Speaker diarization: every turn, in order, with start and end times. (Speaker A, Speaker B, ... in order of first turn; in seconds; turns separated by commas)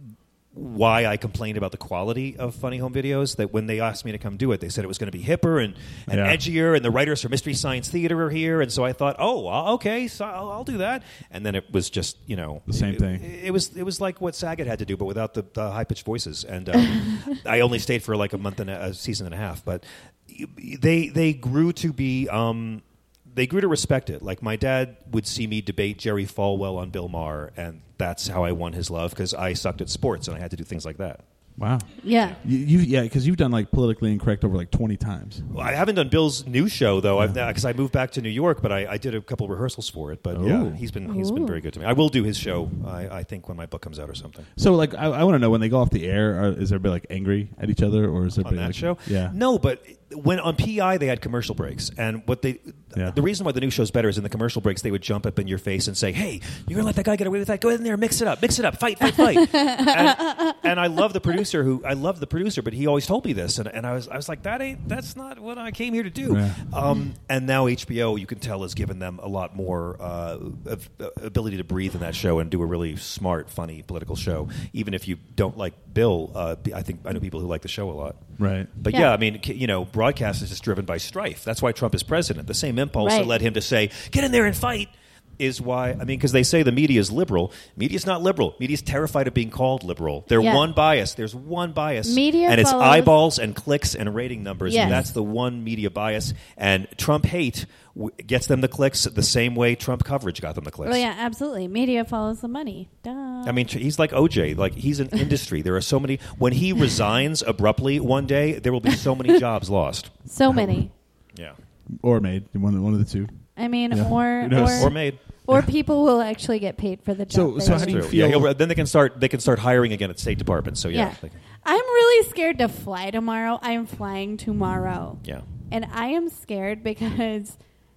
Speaker A: 0.5-31.2, Speaker B: 6.1-6.4, Speaker B: 12.7-13.3, Speaker B: 31.6-31.9, Speaker C: 32.0-32.4, Speaker B: 32.4-35.5, Speaker A: 35.5-44.5, Speaker B: 40.3-40.8, Speaker C: 41.1-41.6, Speaker B: 44.6-49.4, Speaker A: 48.4-78.2, Speaker C: 59.1-60.6, Speaker B: 66.3-66.6, Speaker B: 78.4-78.7, Speaker A: 78.8-101.0, Speaker C: 83.0-83.3, Speaker C: 90.4-90.7, Speaker C: 92.1-93.2, Speaker C: 94.7-95.1, Speaker C: 100.8-103.6, Speaker A: 103.5-110.2, Speaker C: 110.3-110.9, Speaker B: 110.5-110.8, Speaker B: 112.0-113.3, Speaker C: 113.6-118.2, Speaker B: 113.9-115.7, Speaker A: 114.5-115.2, Speaker B: 117.3-118.5, Speaker A: 117.6-121.4, Speaker C: 120.9-127.6